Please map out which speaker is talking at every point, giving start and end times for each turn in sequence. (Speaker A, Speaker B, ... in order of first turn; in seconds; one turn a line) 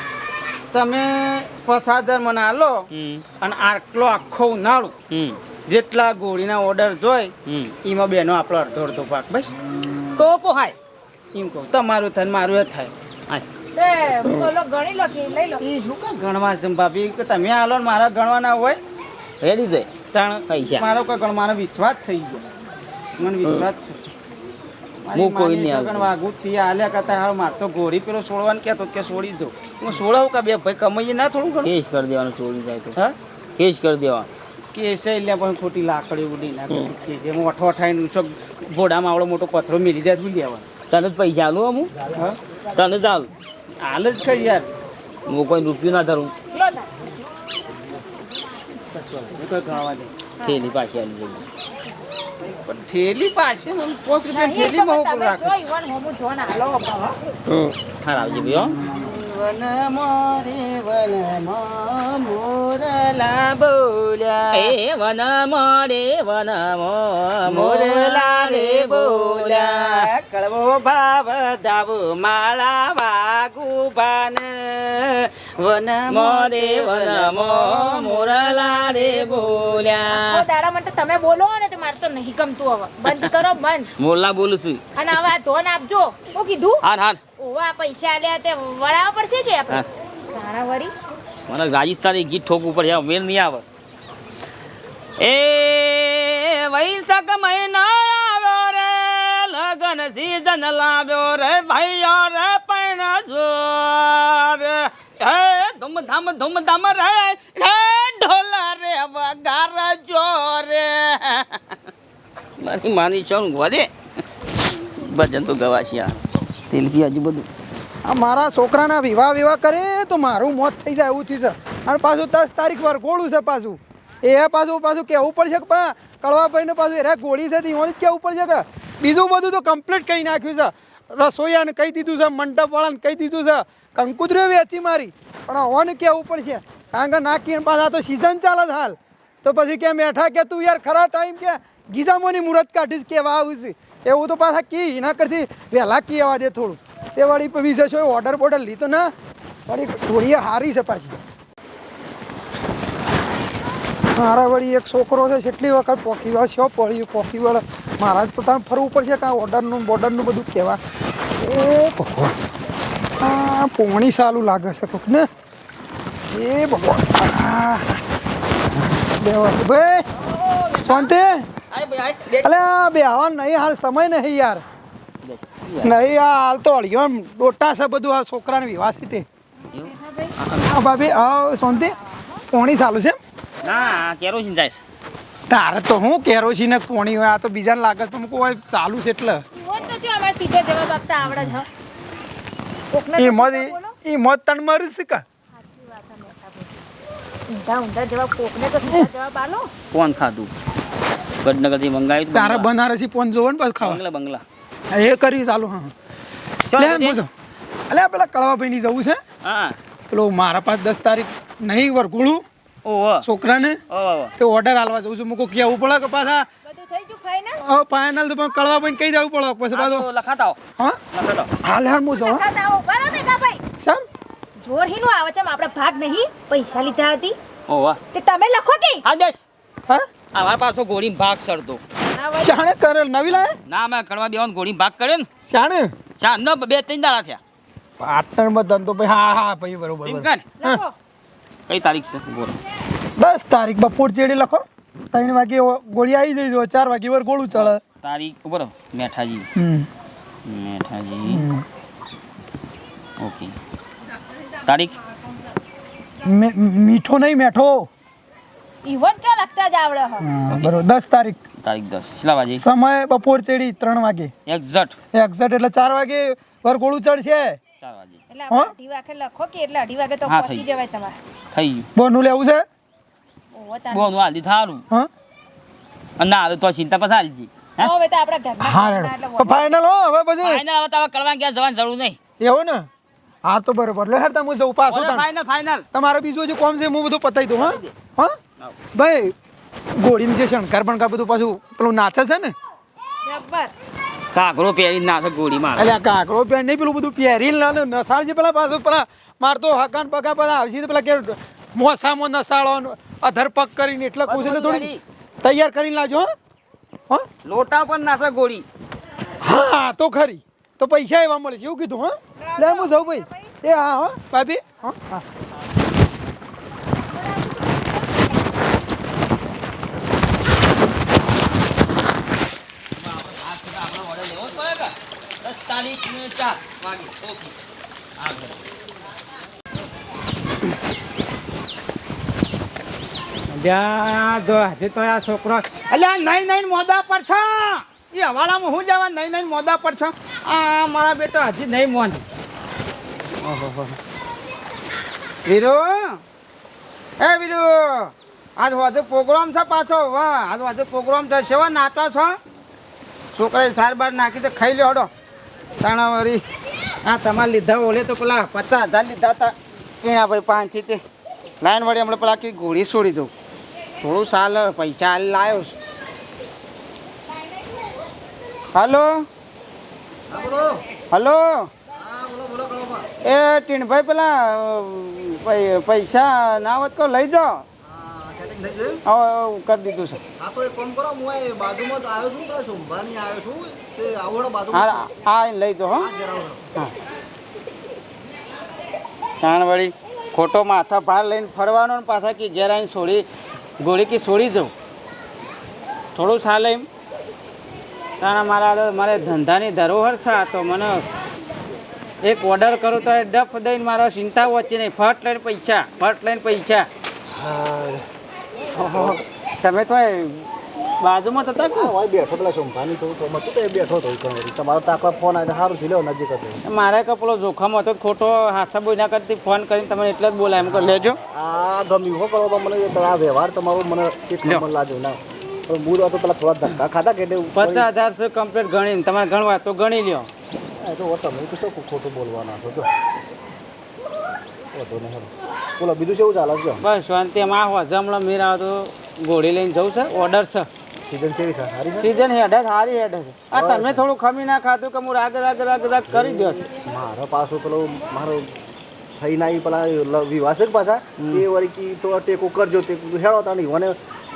Speaker A: 0.7-2.9
Speaker B: 2.9-3.2
Speaker A: 3.4-4.9
Speaker B: 5.1-5.4
Speaker A: 5.7-7.3
Speaker B: 7.5-7.7
Speaker A: 7.8-9.5
Speaker B: 10.2-10.8
Speaker A: 11.3-12.9
Speaker C: 13.8-15.6
Speaker A: 15.6-18.8
Speaker B: 19.4-19.9
Speaker A: 20.1-22.4
Speaker B: 20.5-20.9
Speaker A: 23.2-24.0
Speaker A: 25.1-31.7
Speaker B: 25.1-26.1
Speaker B: 31.6-33.0
Speaker B: 33.6-34.3
Speaker A: 34.7-40.6
Speaker B: 40.9-41.9
Speaker B: 42.8-43.3
Speaker A: 43.8-44.7
Speaker B: 45.3-46.3
Speaker C: 46.5-46.9
Speaker A: 48.9-50.1
Speaker B: 50.4-51.4
Speaker A: 52.5-55.5
Speaker C: 54.3-56.8
Speaker A: 56.8-57.1
Speaker B: 57.6-58.8
Speaker A: 58.8-64.8
Speaker B: 64.5-70.1
Speaker A: 67.5-78.4
Speaker B: 76.1-80.4
Speaker C: 80.1-83.9
Speaker B: 84.0-84.8
Speaker C: 85.0-86.8
Speaker B: 86.8-87.2
Speaker C: 87.4-90.9
Speaker B: 91.5-93.6
Speaker B: 95.2-111.8
Speaker B: 112.6-113.9
Speaker B: 115.0-116.2
Speaker B: 116.7-117.5
Speaker D: 118.0-149.1
Speaker D: 149.7-151.2
Speaker D: 154.2-160.8
Speaker D: 161.4-162.3
Speaker D: 163.2-165.3
Speaker D: 166.3-168.0
Speaker D: 169.2-170.1
Speaker B: 170.5-171.1
Speaker D: 170.9-171.5
Speaker B: 171.7-172.5
Speaker D: 172.4-174.6
Speaker B: 175.2-176.0
Speaker D: 175.8-179.2
Speaker B: 179.7-180.7
Speaker C: 179.8-180.3
Speaker D: 180.6-181.9
Speaker C: 181.7-182.4
Speaker D: 182.5-183.2
Speaker B: 183.6-184.8
Speaker C: 183.7-184.0
Speaker D: 185.5-189.4
Speaker C: 189.5-191.7
Speaker D: 191.3-191.5
Speaker C: 192.9-193.9
Speaker D: 193.2-195.2
Speaker C: 195.6-196.7
Speaker C: 197.5-199.7
Speaker B: 199.9-200.5
Speaker B: 201.4-202.7
Speaker D: 202.3-204.0
Speaker B: 203.8-204.4
Speaker D: 204.9-205.9
Speaker B: 206.7-207.2
Speaker D: 206.8-207.3
Speaker D: 207.9-209.2
Speaker B: 209.4-209.8
Speaker D: 210.1-212.4
Speaker B: 212.8-213.3
Speaker D: 213.2-213.8
Speaker B: 213.9-214.3
Speaker D: 214.4-216.5
Speaker C: 216.7-217.6
Speaker D: 217.6-220.1
Speaker B: 219.7-220.6
Speaker B: 221.1-221.5
Speaker D: 221.6-222.4
Speaker C: 222.1-223.6
Speaker C: 224.6-227.4
Speaker B: 227.7-228.0
Speaker C: 228.1-229.0
Speaker B: 229.1-229.4
Speaker B: 230.3-231.8
Speaker C: 232.2-232.6
Speaker D: 232.4-233.6
Speaker B: 233.7-235.3
Speaker D: 235.5-235.9
Speaker B: 236.2-237.4
Speaker D: 238.0-240.8
Speaker B: 240.1-240.5
Speaker C: 240.6-240.9
Speaker B: 241.7-242.6
Speaker D: 243.2-247.8
Speaker B: 247.6-249.5
Speaker D: 249.6-249.9
Speaker B: 250.4-251.5
Speaker D: 251.3-251.6
Speaker B: 253.2-253.5
Speaker B: 254.6-254.9
Speaker D: 256.2-257.9
Speaker C: 258.9-260.3
Speaker D: 260.2-261.4
Speaker B: 261.6-262.6
Speaker D: 262.6-264.3
Speaker B: 264.5-264.9
Speaker D: 265.1-267.6
Speaker B: 267.8-268.2
Speaker C: 268.3-271.2
Speaker B: 270.3-270.6
Speaker B: 271.5-271.9
Speaker D: 272.0-272.6
Speaker C: 273.6-274.1
Speaker B: 273.9-274.8
Speaker B: 276.2-277.9
Speaker C: 277.8-279.6
Speaker D: 278.6-280.6
Speaker B: 280.4-282.2
Speaker D: 282.4-282.9
Speaker D: 283.4-285.3
Speaker B: 284.9-285.9
Speaker D: 285.9-288.4
Speaker B: 287.6-287.9
Speaker D: 288.9-289.3
Speaker D: 290.0-292.5
Speaker C: 293.3-293.7
Speaker B: 294.3-295.9
Speaker D: 295.8-304.9
Speaker B: 304.3-305.0
Speaker D: 305.4-306.3
Speaker B: 307.4-308.6
Speaker D: 309.4-315.2
Speaker C: 312.4-313.5
Speaker C: 317.1-317.9
Speaker B: 323.0-327.5
Speaker B: 328.2-328.6
Speaker A: 333.5-342.2
Speaker A: 343.4-344.0
Speaker A: 345.5-346.2
Speaker A: 347.2-352.4
Speaker A: 353.3-355.1
Speaker A: 355.8-356.4
Speaker A: 357.1-361.0
Speaker A: 361.6-363.3
Speaker A: 364.0-365.8
Speaker A: 368.7-369.3
Speaker E: 370.3-370.8
Speaker A: 371.1-371.7
Speaker E: 371.9-373.1
Speaker A: 373.2-377.7
Speaker E: 377.8-379.0
Speaker A: 379.1-380.2
Speaker E: 380.4-385.0
Speaker A: 384.7-386.1
Speaker E: 386.0-386.6
Speaker A: 389.4-393.3
Speaker A: 393.8-394.7
Speaker A: 396.1-396.9
Speaker A: 398.2-401.0
Speaker A: 402.2-406.9
Speaker E: 407.3-408.0
Speaker A: 408.8-410.5
Speaker E: 408.9-409.2
Speaker A: 411.0-411.9
Speaker E: 411.7-416.6
Speaker A: 416.7-421.2
Speaker E: 420.7-427.9
Speaker A: 427.6-430.3
Speaker E: 430.8-432.9
Speaker E: 434.7-436.8
Speaker A: 436.8-440.7
Speaker E: 441.1-442.2
Speaker A: 442.0-446.7
Speaker E: 443.5-444.1
Speaker E: 446.1-448.6
Speaker E: 449.2-454.0
Speaker A: 451.2-451.4